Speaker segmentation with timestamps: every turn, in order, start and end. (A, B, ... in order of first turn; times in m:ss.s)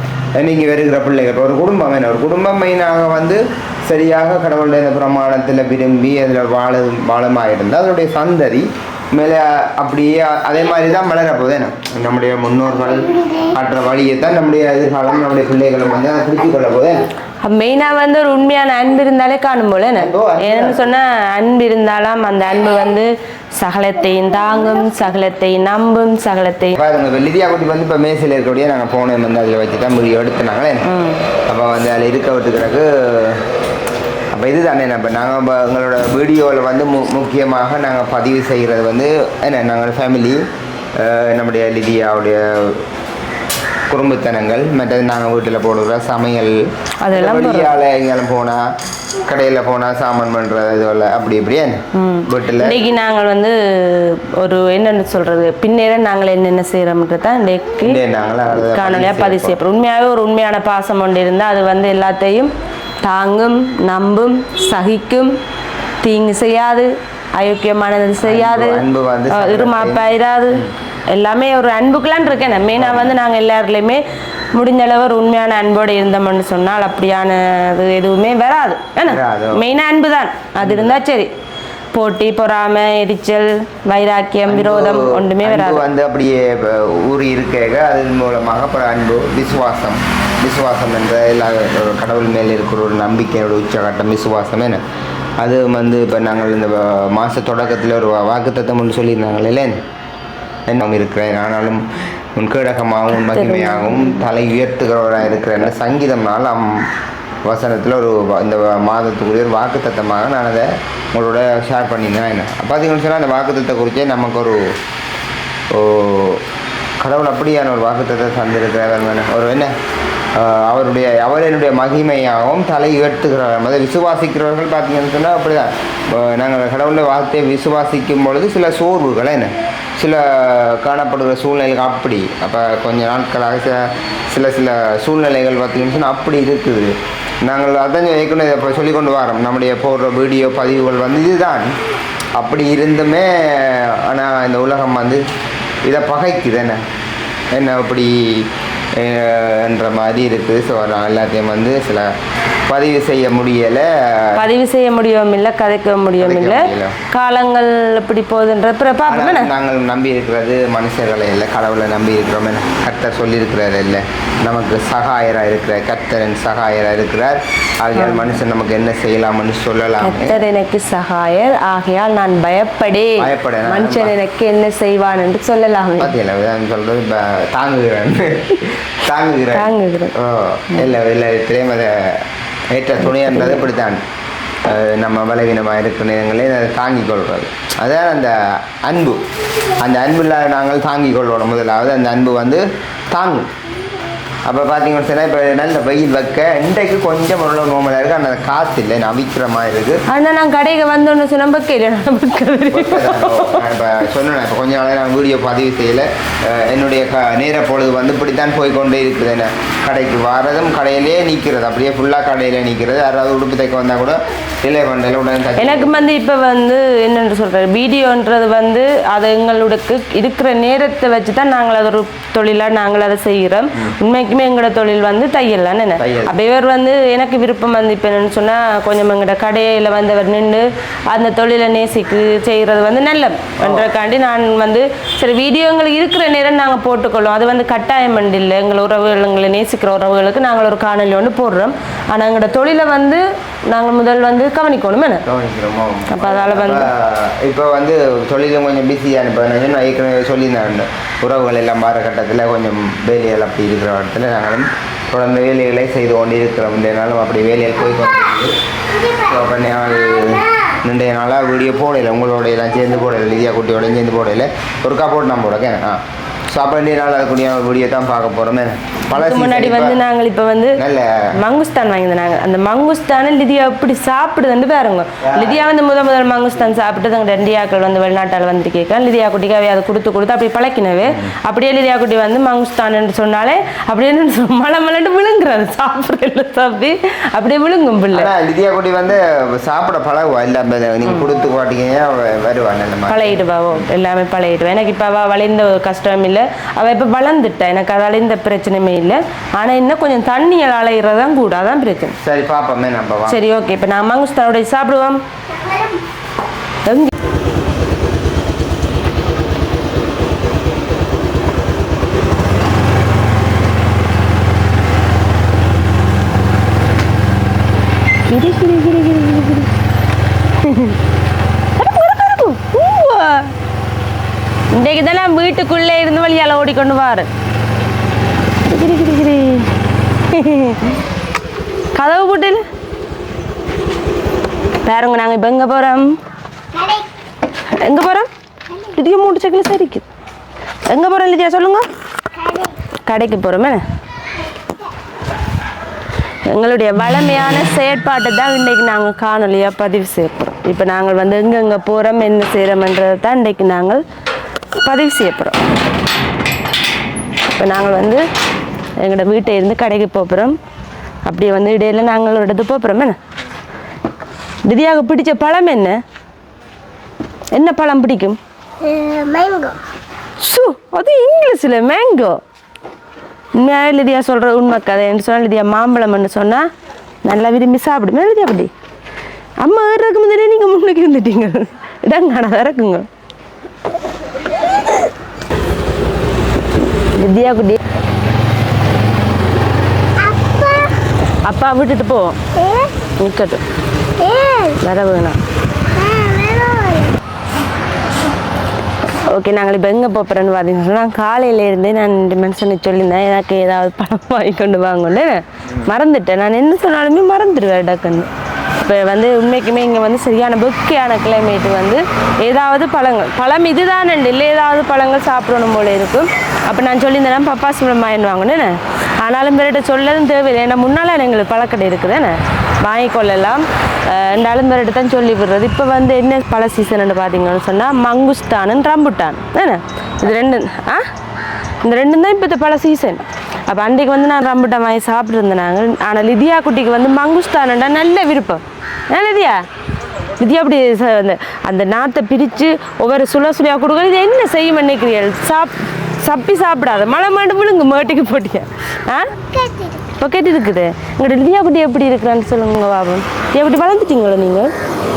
0:00.4-0:17.0 A
0:17.4-0:26.8 B
0:20.0-0:20.9 A
0:26.8-0:30.9 A
0:30.8-0:31.3 B
0:31.5-0:33.5 A
0:34.3-0:40.4 A
0:41.0-0:42.8 A
0:43.9-0:48.6 A
0:47.0-0:47.7 B
0:49.2-0:52.8 A
0:52.0-0:58.0 B
0:57.8-0:59.6 A
0:58.5-1:02.5 B
1:03.0-1:05.4 B
1:06.0-1:14.0 B
1:08.2-1:10.7 A
1:12.8-1:13.2 A
1:14.5-1:21.3 B
1:19.0-1:19.6 A
1:20.6-1:21.0 A
1:21.9-1:25.9 B
1:24.5-1:34.8 A
1:35.4-1:39.8 A
1:40.7-1:46.9 A
1:43.1-1:44.3 B
1:47.4-1:54.8 A
1:55.7-1:56.4 A
1:57.0-1:59.7 A
2:00.3-2:21.7 A
2:22.3-2:25.2 A
2:25.8-2:26.8 A
2:27.5-2:32.1 A
2:32.7-2:34.4 A
2:34.4-2:39.5 B
2:36.2-2:37.0 A
2:39.1-2:50.4 A
2:48.0-2:48.4 B
2:50.0-2:56.1 B
2:53.2-2:54.2 A
2:56.0-3:04.0 A
2:59.5-3:00.2 B
3:03.0-3:03.6 B
3:04.6-3:13.5 A
3:14.4-3:20.0 A
3:20.1-3:23.7 B
3:22.7-3:36.0 A
3:35.6-4:05.2 B
3:46.0-3:46.3 A
3:53.6-3:53.9 A
4:05.2-4:18.6 A
4:06.1-4:06.9 B
4:18.9-4:19.3 C
4:19.1-4:30.0 A
4:29.1-4:30.8 B
4:30.8-4:31.3 A
4:31.4-4:48.3 B
4:35.2-4:35.7 A
4:41.1-4:41.3 A
4:48.1-4:53.9 A
4:51.0-4:51.3 B
4:53.1-5:02.2 B
5:02.2-5:03.4 A
5:03.3-5:05.2 B
5:05.5-5:06.0 C
5:06.9-5:07.1 B
5:18.3-5:19.7 B
5:20.5-5:21.0 B
5:21.8-5:23.5 B
5:24.7-5:27.3 B
5:28.7-5:29.7 B
5:30.2-5:31.0 B
5:31.9-5:32.6 B
5:34.8-5:36.2 B
5:36.7-5:37.1 C
5:37.7-5:40.1 B
5:40.9-5:41.8 B
5:42.4-5:42.7 C
5:43.1-5:43.8 B
5:46.5-5:54.0 B
5:54.8-5:55.6 B
5:57.6-5:58.2 B
5:59.0-6:00.6 B
6:01.2-6:03.2 B
6:04.6-6:06.0 B
6:07.5-6:08.4 B
6:08.8-6:09.8 C
6:10.4-6:12.4 B
6:13.6-6:16.7 B
6:17.2-6:18.7 B
6:19.6-6:23.1 B
6:27.2-6:27.8 B
6:30.2-6:31.0 C
6:31.4-6:32.4 B
6:32.6-6:33.0 C
6:33.2-6:33.6 B
6:34.2-6:34.8 C
6:34.7-6:35.4 B
6:36.0-6:37.1 C
6:39.1-7:11.0 B
6:45.7-6:45.9 A
7:11.8-7:19.6 B
7:20.4-7:29.4 B
7:29.4-7:30.1 C
7:30.2-7:34.7 B